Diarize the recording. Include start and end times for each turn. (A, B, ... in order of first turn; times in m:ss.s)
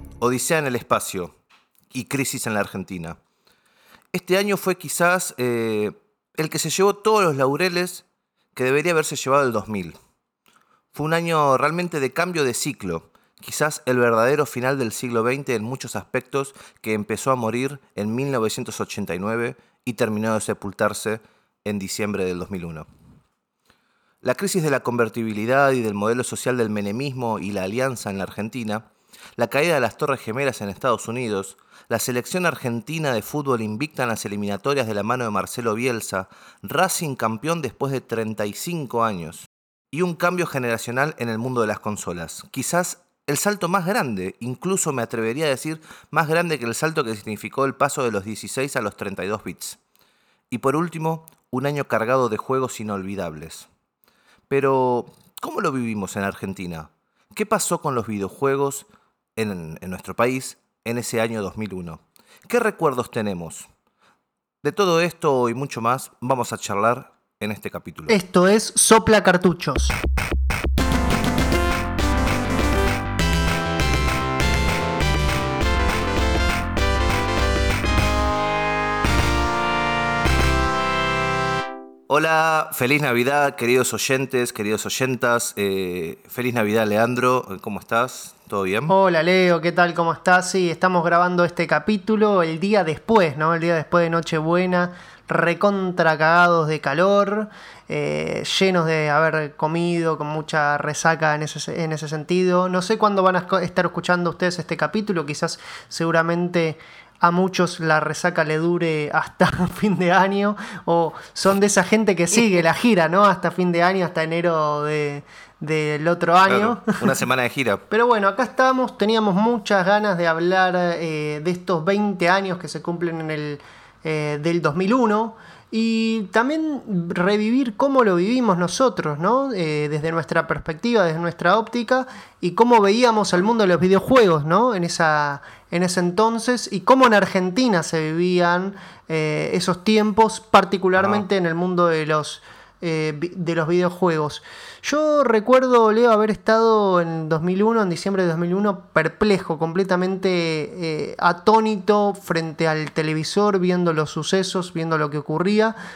0:00.2-0:01.3 A
0:01.9-0:03.2 A
0:04.1-0:08.0 A
0:08.6-0:10.0 A
0:10.9-0:22.8 A
0:24.2-0:49.8 A
0:50.5-0:53.7 A
0:54.5-1:03.7 A
1:04.6-1:08.2 A
1:08.1-1:10.0 B
1:22.1-1:28.9 A
1:28.9-1:57.1 B
1:56.5-1:57.8 A
1:57.9-2:35.8 B
2:21.0-2:21.2 A